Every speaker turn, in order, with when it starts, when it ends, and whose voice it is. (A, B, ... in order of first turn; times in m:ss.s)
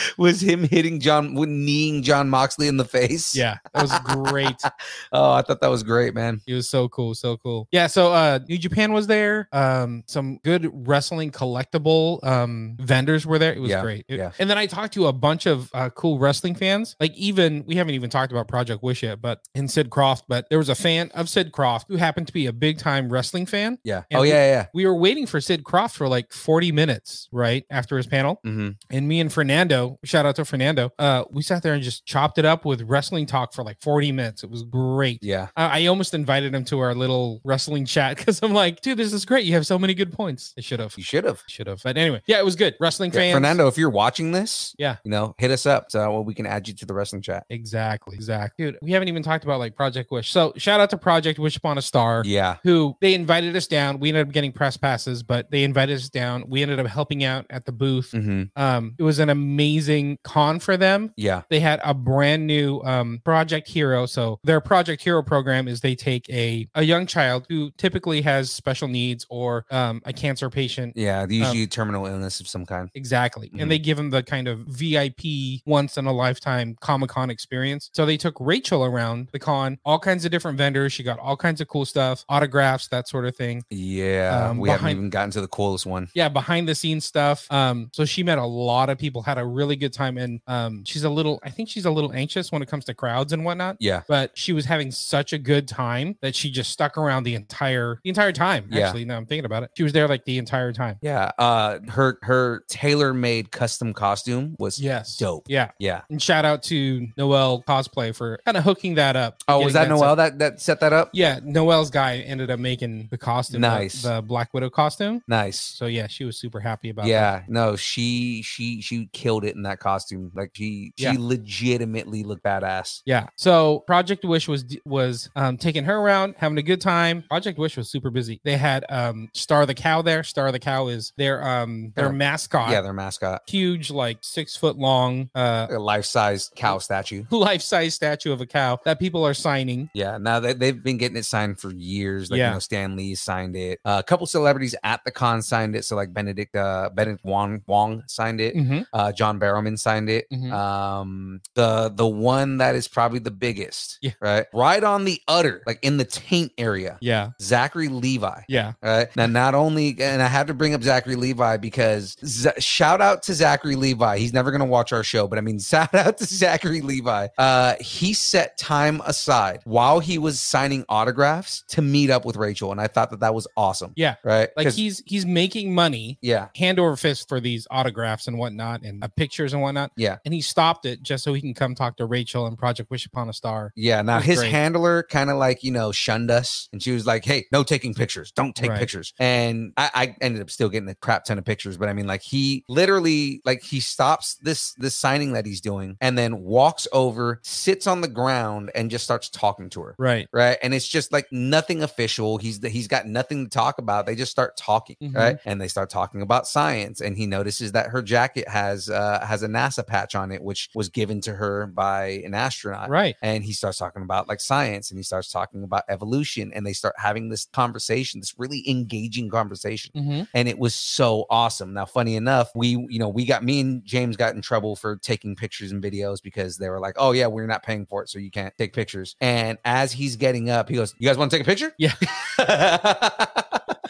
0:00.2-0:06.4 A
0:03.3-0:04.7 B
0:06.5-0:43.6 B
0:13.6-0:14.3 A
0:23.8-0:24.7 A
0:28.4-0:28.8 A
0:35.2-0:35.5 A
0:41.0-0:41.4 A
0:43.1-0:47.4 A
0:47.5-1:11.6 B
0:52.2-0:52.6 A
0:58.1-0:58.5 A
1:01.2-1:01.4 A
1:10.9-1:12.9 A
1:12.9-1:23.7 B
1:13.5-1:13.8 A
1:23.7-1:26.1 A
1:24.3-1:25.0 B
1:26.1-1:41.0 B
1:33.8-1:34.0 A
1:38.7-1:39.0 A
1:41.0-1:46.0 A
1:44.8-1:50.2 B
1:49.4-1:51.1 A
1:51.1-1:57.3 B
1:53.5-1:54.1 A
1:55.3-1:55.8 A
1:57.0-2:03.0 A
2:03.0-2:12.8 B
2:12.0-2:13.4 A
2:13.4-2:15.7 B
2:15.7-2:17.3 A
2:17.3-2:19.9 B
2:19.9-2:54.8 A
2:22.3-2:22.6 B
2:28.5-2:28.8 B
2:30.3-2:30.6 B
2:37.0-2:37.3 B
2:38.5-2:38.7 B
2:54.0-3:04.6 B
2:56.2-2:56.5 A
3:03.7-3:53.6 A
3:08.6-3:08.9 B
3:20.0-3:20.3 B
3:25.0-3:25.4 B
3:32.8-3:33.2 B
3:39.9-3:40.3 B